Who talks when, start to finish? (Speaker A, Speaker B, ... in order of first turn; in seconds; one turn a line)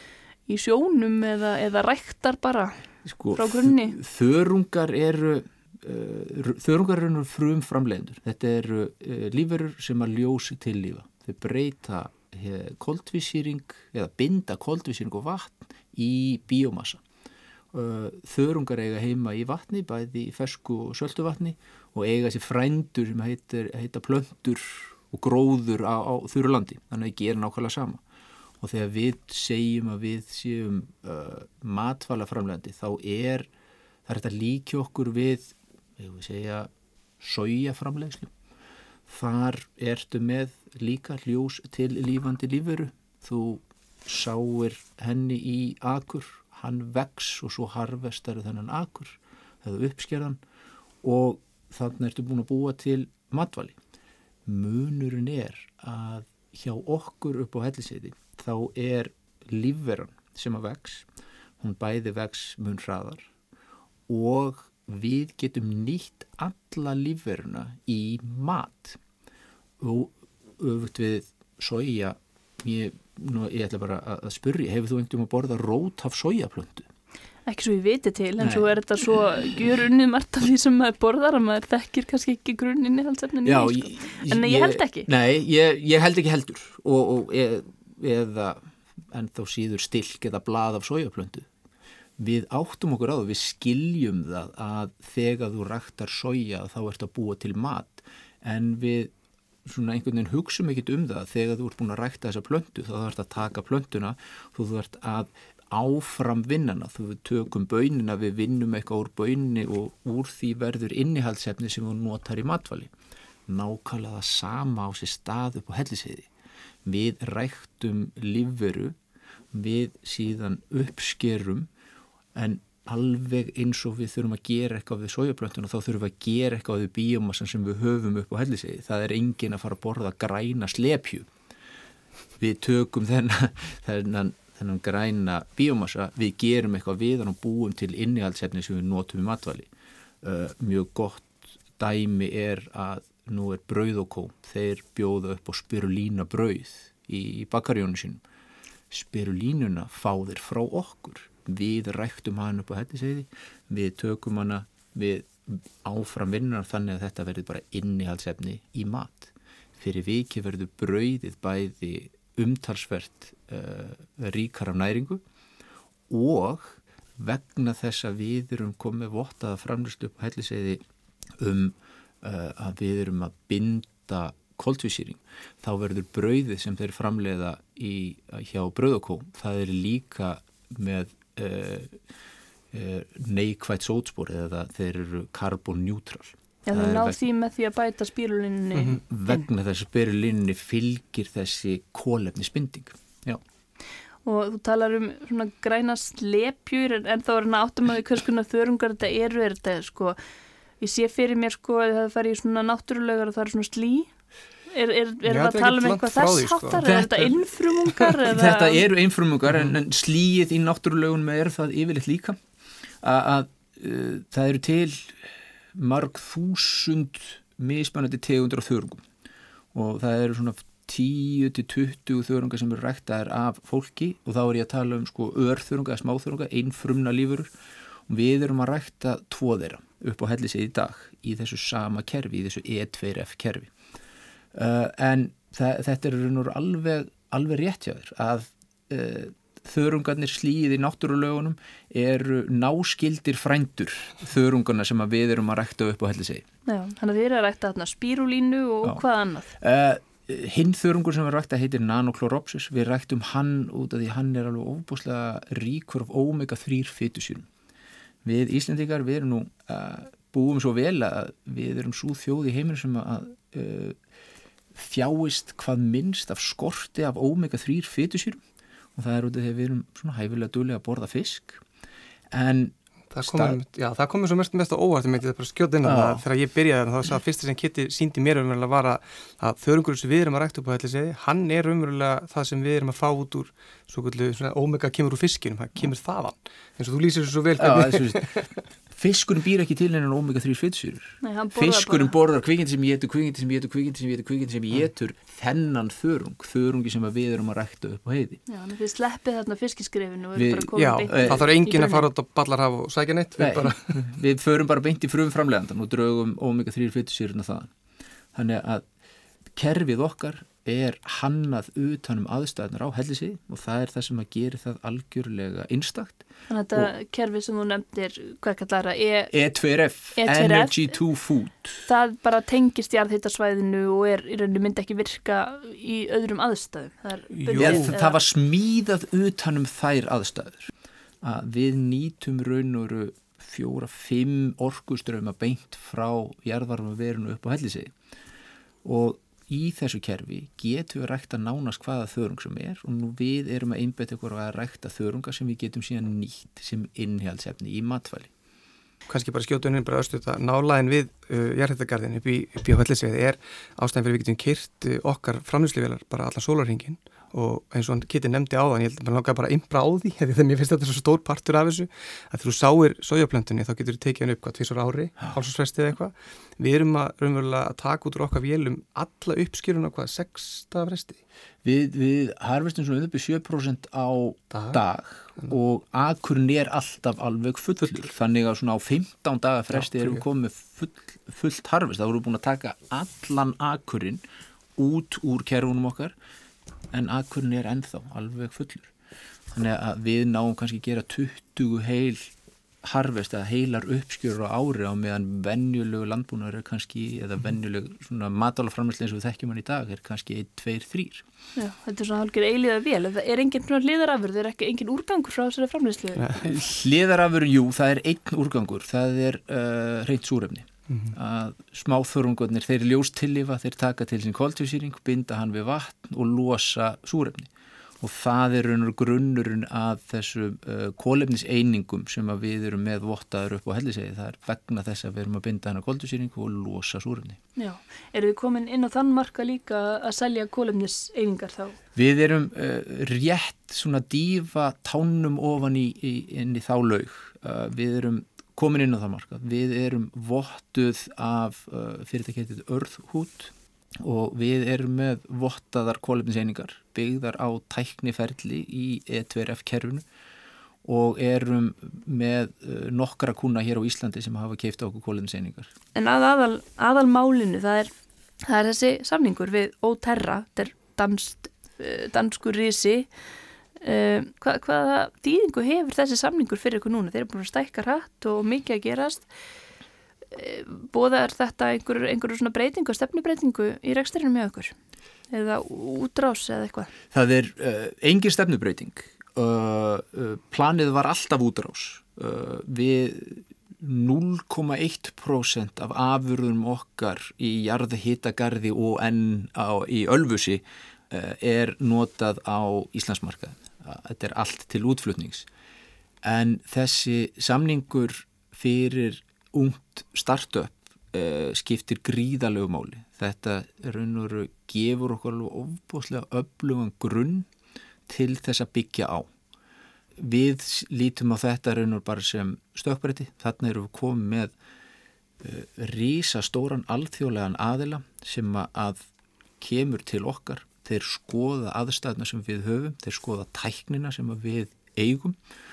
Speaker A: 0.5-2.8
Speaker B: 3.1-17.0
Speaker A: 3.3-4.0
Speaker B: 17.7-28.0
Speaker B: 28.6-33.5
Speaker B: 34.1-36.7
Speaker B: 37.2-38.3
Speaker B: 39.1-50.4
Speaker B: 51.0-53.8
Speaker B: 54.5-61.1
Speaker B: 61.6-63.3
Speaker B: 64.1-69.0
Speaker B: 69.8-76.9
Speaker A: 77.5-85.1
Speaker B: 78.4-78.7
Speaker B: 83.5-91.5
Speaker B: 92.2-99.1
Speaker B: 99.7-112.9
Speaker B: 113.5-116.3
Speaker B: 116.8-119.0
Speaker B: 119.5-121.7
Speaker B: 122.3-131.3
Speaker B: 132.4-139.7
Speaker B: 140.2-148.2
Speaker B: 148.9-165.2
Speaker B: 166.1-170.8
Speaker B: 171.4-182.0
Speaker B: 182.7-187.2
Speaker A: 186.7-189.4
Speaker B: 189.1-193.4
Speaker A: 194.2-200.2
Speaker A: 200.8-204.1
Speaker A: 204.7-208.8
Speaker C: 205.3-207.0
Speaker B: 206.8-207.3
Speaker B: 208.1-212.4
Speaker B: 213.0-215.2
Speaker B: 215.8-219.0
Speaker B: 219.7-227.5
Speaker B: 228.1-233.7
Speaker B: 234.5-246.4
Speaker A: 246.7-249.5
Speaker B: 249.6-257.5
Speaker B: 258.2-264.0
Speaker B: 264.8-268.4
Speaker B: 269.0-271.6
Speaker B: 272.3-273.6
Speaker C: 273.1-288.5
Speaker B: 275.8-276.2
Speaker B: 287.6-288.3
Speaker B: 288.9-298.4
Speaker A: 291.2-292.1
Speaker A: 298.5-302.1
Speaker B: 300.4-301.4
Speaker C: 300.8-304.1
Speaker B: 303.4-307.7
Speaker B: 308.3-308.9
Speaker B: 309.6-316.9
Speaker A: 316.5-319.3
Speaker B: 319.3-321.8
Speaker A: 320.2-321.0
Speaker A: 321.9-328.2
Speaker C: 327.4-327.9
Speaker B: 327.6-330.7
Speaker B: 331.2-337.9
Speaker B: 338.9-348.3
Speaker C: 349.1-371.2
Speaker B: 371.6-384.2
Speaker C: 374.5-374.8
Speaker C: 379.7-380.2
Speaker B: 384.8-386.1
Speaker B: 386.9-388.9
Speaker B: 389.5-401.2
Speaker A: 401.6-406.2
Speaker C: 406.2-406.5
Speaker B: 406.4-417.5
Speaker C: 410.9-411.1
Speaker B: 418.0-427.4
Speaker A: 427.6-431.8
Speaker B: 431.9-450.0
Speaker B: 450.9-455.7
Speaker A: 455.9-463.1
Speaker A: 463.8-469.3
Speaker A: 470.3-474.8
Speaker A: 475.3-476.9
Speaker B: 477.1-495.5
Speaker B: 496.2-507.5
Speaker B: 508.1-509.3
Speaker B: 510.2-514.5
Speaker B: 515.4-519.1
Speaker B: 519.6-525.4